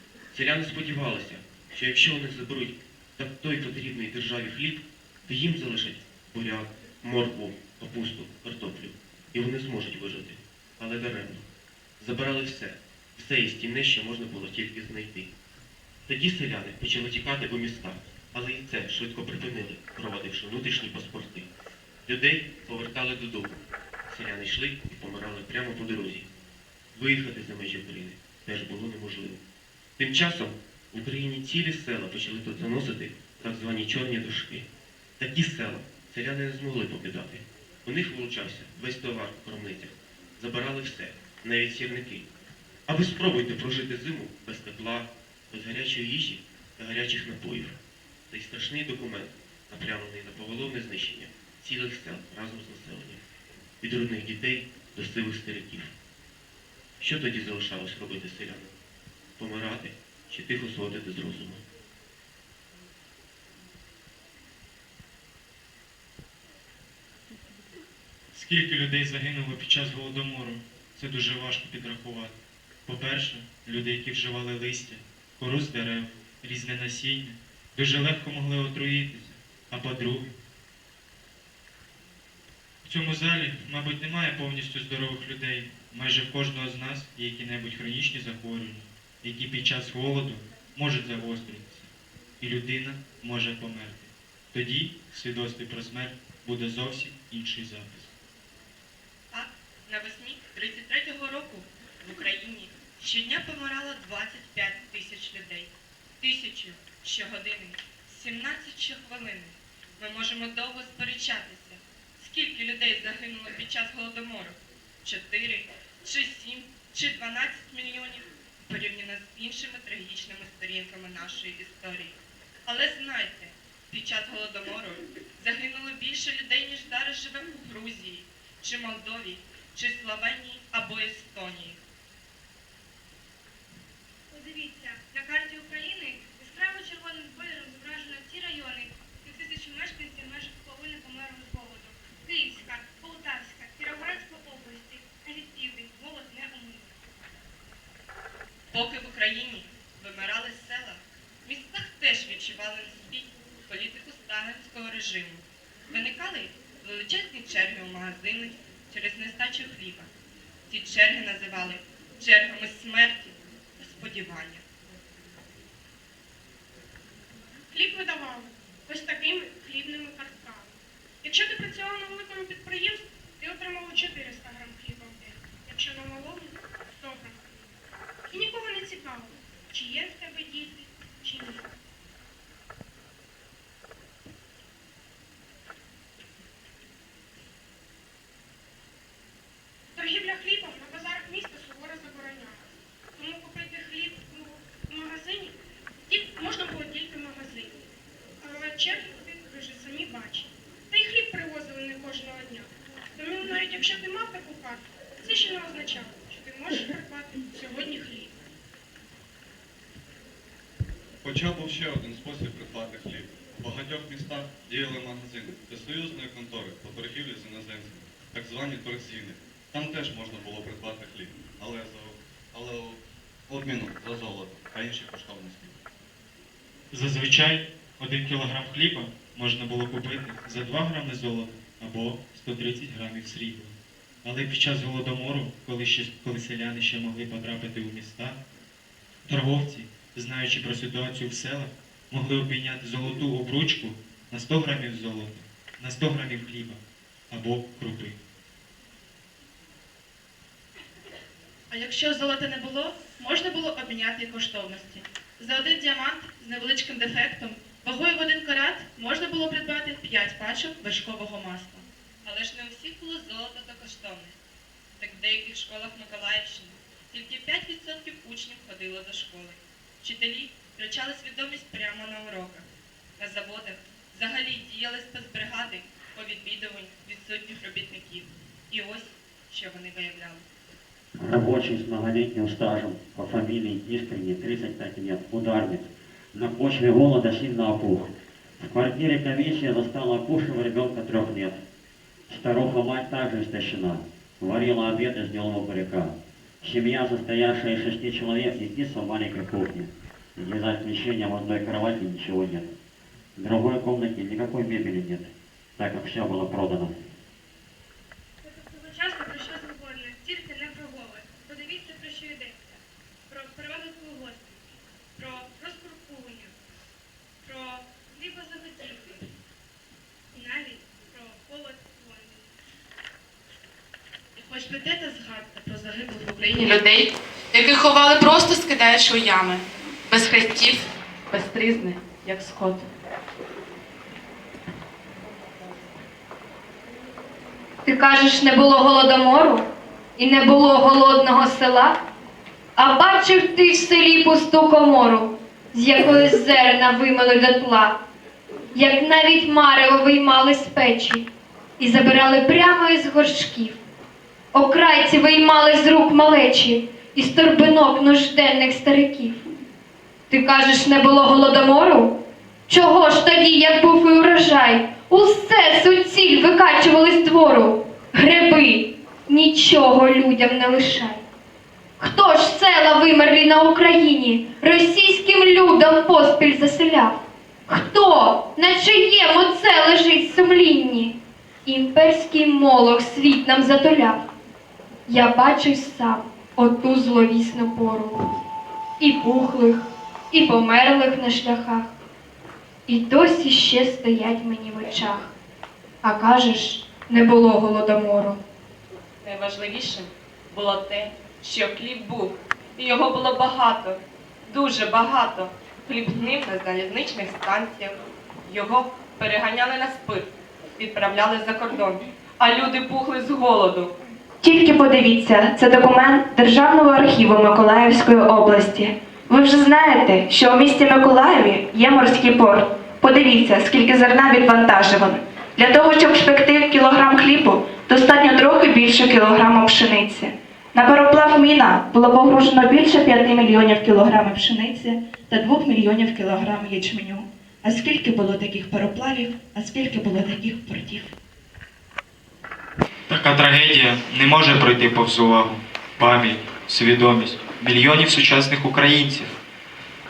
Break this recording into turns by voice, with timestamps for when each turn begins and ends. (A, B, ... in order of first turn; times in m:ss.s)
0:00.3-0:11.4 A
0:12.0-0:15.3 A
0:16.1-0:21.5 A
0:22.0-0:26.2 A
0:26.9-0:29.4 A
0:30.0-0:34.6 A
0:35.2-0:42.2 A
0:42.9-0:47.8 A
0:48.3-0:53.2 A
0:53.8-0:55.9 A
0:57.0-0:58.7 A
0:59.4-1:01.6 A
1:08.3-1:20.2 B
1:22.8-1:38.1 B
1:39.3-2:11.8 C
2:14.3-2:26.9 D
2:28.7-2:40.1 C
2:40.7-2:44.6 C
2:47.7-2:57.4 E
2:58.3-3:01.7 E
3:09.9-3:15.6 E
3:16.1-3:17.8 E
3:18.4-3:28.3 E
3:31.2-3:45.8 F
3:46.9-3:58.4 B
3:59.3-4:08.2 B
4:11.7-4:21.8 G
4:22.2-4:24.4 C
4:25.0-4:32.7 C
4:33.2-4:40.4 C
4:41.2-4:51.6 H
4:52.3-5:02.7 H
5:03.4-5:07.0 H
5:08.4-5:12.6 D
5:13.3-5:14.5 D
5:15.2-5:16.5 D
5:17.4-5:19.1 D
5:20.3-5:22.5 D
5:24.4-5:32.8 G
5:37.8-5:42.0 I
5:42.8-5:48.0 I
5:48.7-5:51.3 I
5:51.8-5:53.8 I
5:54.5-5:59.4 I
6:00.3-6:02.2 I
6:02.7-6:11.2 I
6:12.0-6:21.1 I
6:21.6-6:24.2 I
6:25.1-6:28.2 I
6:29.0-6:31.9 I
6:32.9-6:35.3 I
6:36.0-6:38.4 I
6:39.2-6:53.9 C
6:54.4-7:21.1 J
7:23.1-7:29.4 B